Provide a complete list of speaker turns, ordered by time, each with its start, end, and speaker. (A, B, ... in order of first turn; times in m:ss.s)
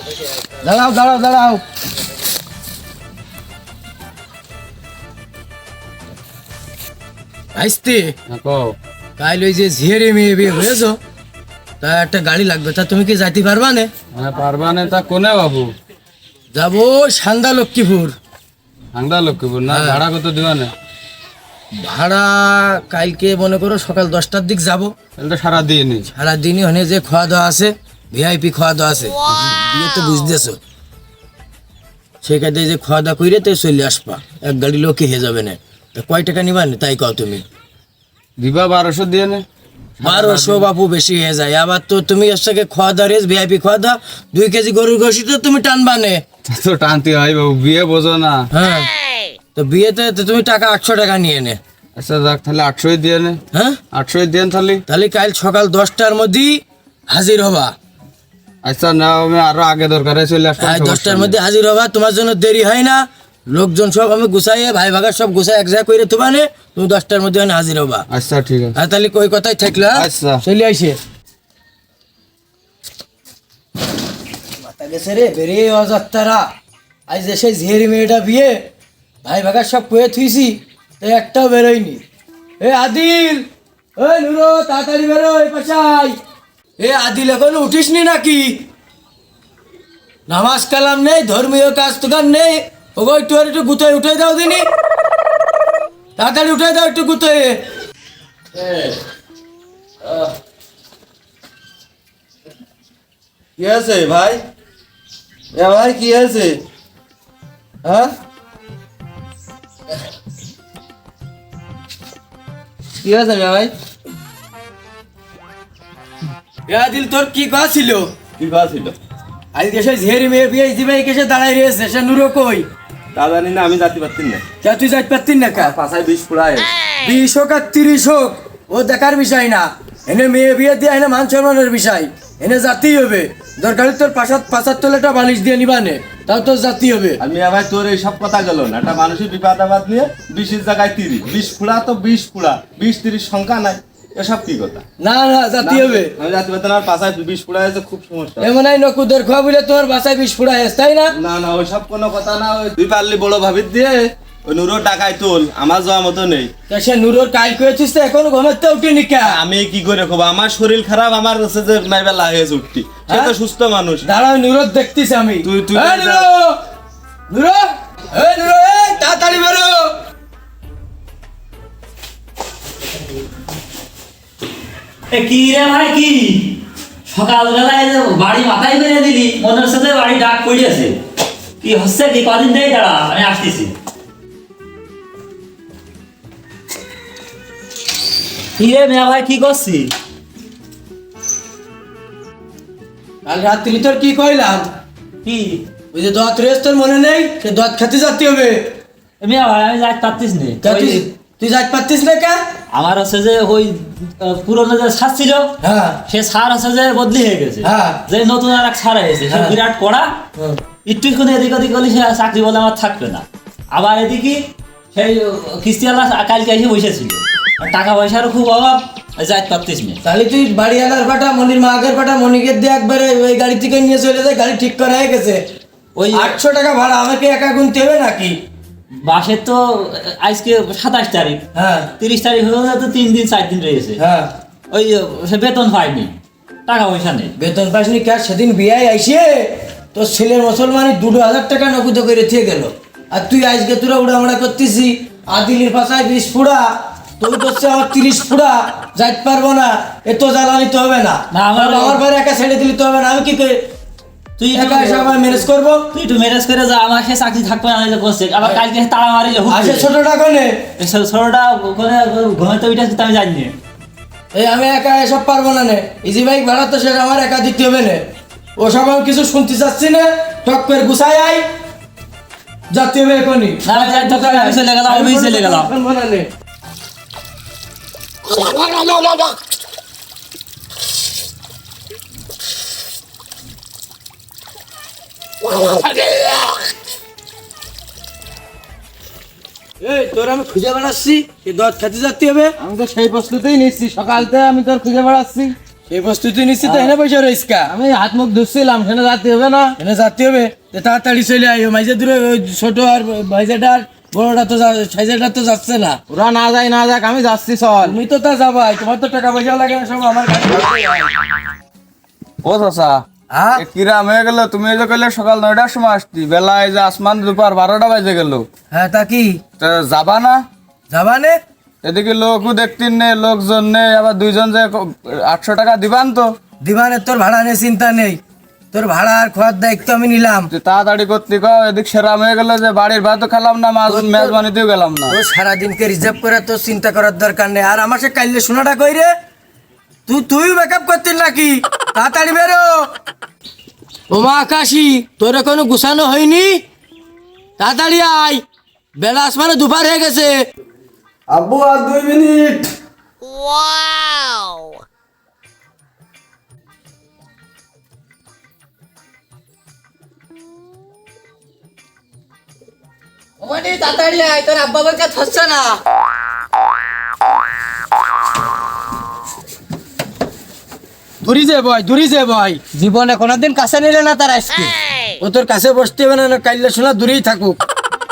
0:00.6-0:01.6 A
0:07.5-0:08.1 A
0:08.3-0:08.8 B
0:09.2-0:11.0 A
0:11.8-0:13.9 A
0:14.1-0:15.7 B
0:16.5-0:18.1 A
0:18.9-0:20.7 B
0:19.7-0:20.0 A
0:21.8-0:24.9 A
0:25.2-0:26.1 B
0:26.1-0:30.6 A
0:32.2-0:37.4 A
0:38.4-0:39.4 B
0:40.0-0:40.6 B
0:40.0-0:46.2 A
0:46.5-0:48.5 B
0:48.5-0:48.9 A
0:49.5-0:51.6 A
0:52.0-0:53.4 B
0:53.5-0:53.8 A
0:53.9-0:54.8 B
0:54.9-0:57.7 A
0:58.6-1:01.4 B
1:00.6-1:08.1 A
1:08.1-1:08.7 B
1:08.7-1:11.0 A
1:09.9-1:10.4 B
1:14.6-1:16.5 A
1:17.1-1:18.6 A
1:19.2-1:22.0 A
1:22.6-1:23.4 A
1:24.0-1:26.2 A
1:26.8-1:28.6 A
1:30.3-1:34.7 A
1:36.2-1:37.6 A
1:38.5-1:38.9 C
1:40.0-1:40.3 C
1:43.6-1:44.4 C
1:45.5-1:46.6 C
1:53.0-1:53.7 C
1:56.7-1:58.1 A
1:58.4-1:59.0 C
1:59.5-2:02.7 A
2:03.1-2:04.4 C
2:04.6-2:05.7 A
2:05.5-2:06.7 C
2:07.0-2:17.2 A
2:17.2-2:24.8 C
2:25.0-2:26.1 A
2:25.6-2:28.5 C
2:28.4-2:31.1 A
2:31.2-2:36.5 C
2:36.7-2:39.4 A
2:39.3-2:44.0 C
2:43.1-2:43.3 A
2:44.0-2:46.6 A
2:45.4-2:46.3 C
2:47.3-2:49.9 A
2:55.1-3:01.0 D
3:01.6-3:03.7 D
3:08.6-3:09.9 D
3:13.2-3:14.7 A
3:15.2-3:15.6 D
3:15.9-3:18.7 A
3:19.2-3:21.0 D
3:20.6-3:22.4 A
3:22.7-3:25.5 D
3:25.6-3:26.0 A
3:26.1-3:30.1 D
3:27.6-3:28.0 A
3:29.3-3:29.6 A
3:30.8-3:40.0 D
3:40.0-3:45.4 A
3:46.0-3:46.4 D
3:46.1-3:48.4 A
3:49.0-3:51.5 D
3:51.5-3:51.9 A
3:52.0-3:54.0 D
3:54.0-3:54.3 A
3:54.7-3:56.1 D
3:56.7-3:57.3 D
3:57.4-4:13.6 A
4:11.3-4:12.0 D
4:14.4-4:19.9 D
4:14.5-4:15.9 A
4:19.5-4:20.6 A
4:20.8-4:23.5 D
4:24.3-4:28.0 A
4:28.6-4:31.4 A
4:32.7-4:36.3 A
4:33.6-4:35.7 D
4:38.5-4:39.2 A
4:45.5-4:46.6 A
4:49.8-4:52.5 A
4:52.6-4:53.7 C
4:54.0-4:54.3 A
4:55.9-4:57.8 A
4:59.7-5:06.0 A
5:06.1-5:07.9 C
5:07.8-5:11.1 A
5:12.4-5:13.0 B
5:13.3-5:13.6 A
5:13.6-5:18.5 B
5:18.7-5:19.4 A
5:19.6-5:20.4 B
5:20.9-5:21.4 A
5:21.8-5:26.3 B
5:26.6-5:28.2 A
5:28.7-5:30.5 A
5:30.5-5:35.2 B
5:33.9-5:34.4 A
5:35.1-5:39.1 A
5:40.1-5:42.8 A
5:44.1-5:46.6 A
5:47.6-5:48.4 A
5:49.0-5:50.4 A
5:51.3-5:52.7 B
6:11.2-6:12.6 A
6:15.2-6:17.6 A